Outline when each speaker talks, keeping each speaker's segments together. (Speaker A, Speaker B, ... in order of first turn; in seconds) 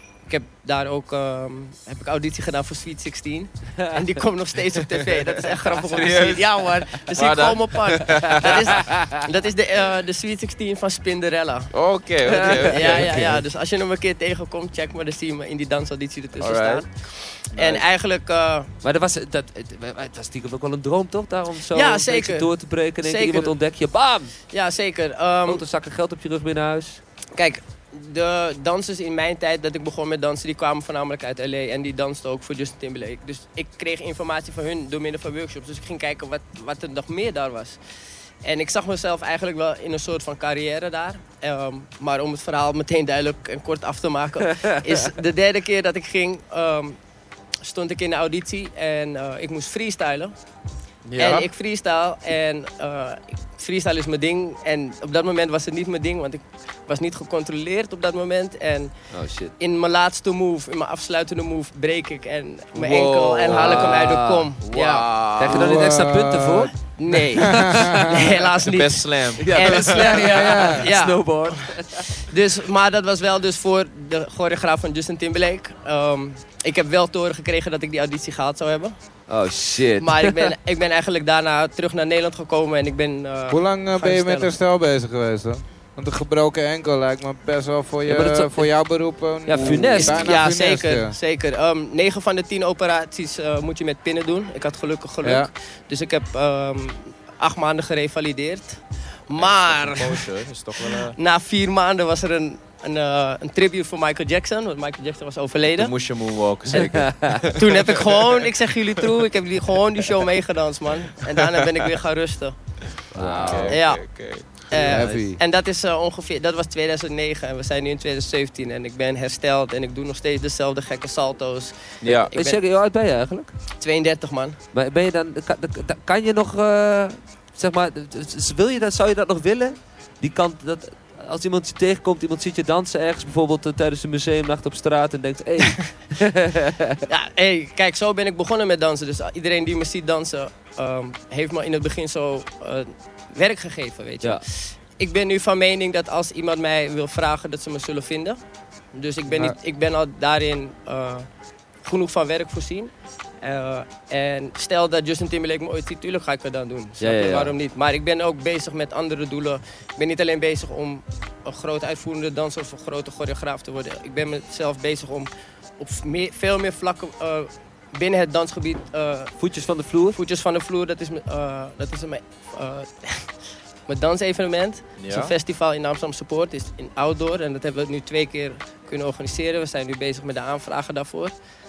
Speaker A: 0.3-11.7, 12.2-18.7, 21.7-23.6, 24.5-25.6, 27.3-37.8, 38.4-47.0, 47.6-50.3, 51.2-58.9, 59.6-65.1, 67.0-78.9, 80.0-84.5, 89.6-105.9, 107.5-112.6, 113.7-114.0, 114.7-122.6, 123.8-124.6, 137.1-148.4, 148.9-151.3, 151.8-152.9, 153.4-169.4, 170.1-173.3, 173.9-181.3
Speaker B: 5.8-8.7, 11.7-13.2, 16.4-16.8, 17.5-17.8, 51.0-51.5, 62.7-65.8, 68.6-70.1, 99.4-101.1, 105.7-108.3, 113.1-115.0, 122.0-122.3, 175.0-175.3
Speaker C: 12.3-13.3, 18.8-24.3, 25.4-27.0, 44.6-45.0, 59.1-59.5, 63.5-64.5, 65.4-66.7, 67.4-68.4, 69.4-72.2, 79.3-80.5, 88.0-88.7, 89.5-90.4, 106.7-107.4, 113.1-113.8, 122.0-123.5, 124.7-137.0, 157.0-157.5, 169.4-170.2
Speaker D: 65.5-66.7, 67.3-68.0, 70.0-70.9, 83.5-91.1, 95.2-95.5, 114.7-115.4